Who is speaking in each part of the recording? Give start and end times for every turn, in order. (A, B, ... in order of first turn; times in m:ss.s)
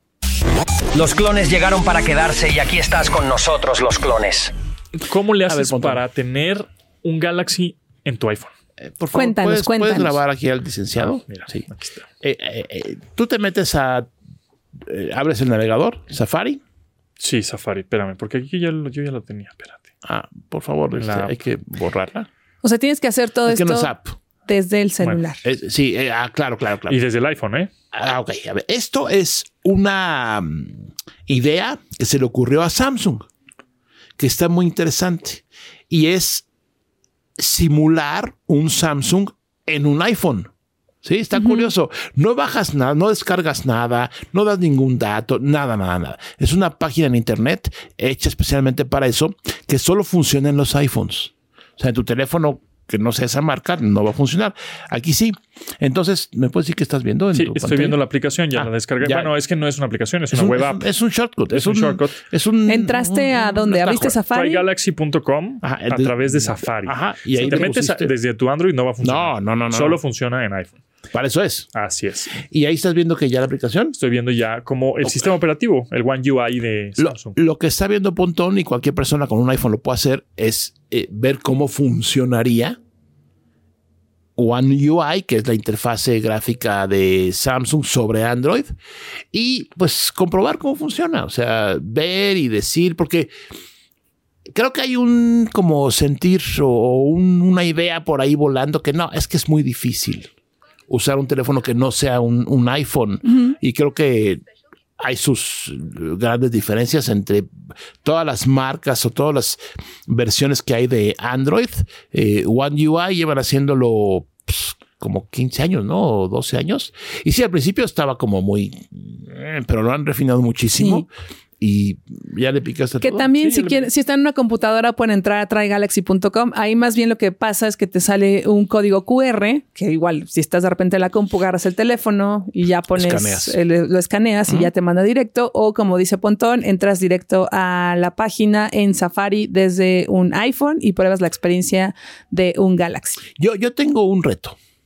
0:00.9-0:04.5 A
0:05.0-0:08.5 B
0:05.5-0:06.0 C
0:08.8-0:11.7 C
0:09.1-0:10.2 D
0:11.0-0:12.0 B
0:12.2-0:14.1 C
0:14.8-0:16.6 C
0:17.2-0:19.9 B
0:20.0-0:22.3 C
0:21.0-0:21.4 B
0:22.6-0:23.9 D
0:23.5-0:24.2 C
0:24.5-0:25.4 D
0:25.4-0:27.0 C
0:26.9-0:27.7 B
0:27.9-0:33.3 C
0:34.2-0:36.4 C
0:37.4-0:40.5 C
0:41.0-0:58.0 C
0:41.4-0:41.7 D
0:57.3-1:00.9 B
0:58.6-0:59.3 C
1:00.3-1:04.2 C
1:01.5-1:02.2 B
1:02.7-1:04.6 D
1:04.3-1:10.8 B
1:05.6-1:08.1 C
1:09.0-1:10.0 C
1:11.1-1:11.7 C
1:11.8-1:12.4 B
1:12.4-1:14.0 C
1:14.0-1:17.4 B
1:15.0-1:15.3 C
1:17.0-1:22.8 C
1:24.4-1:28.8 C
1:29.3-1:33.3 C
1:34.5-1:40.3 C
1:40.9-1:44.4 C
1:43.3-1:43.5 D
1:45.0-1:47.5 C
1:48.0-2:01.1 C
2:00.8-2:01.0 D
2:01.6-2:03.6 C
2:03.0-2:23.2 D
2:12.9-2:13.6 C
2:23.4-2:24.6 C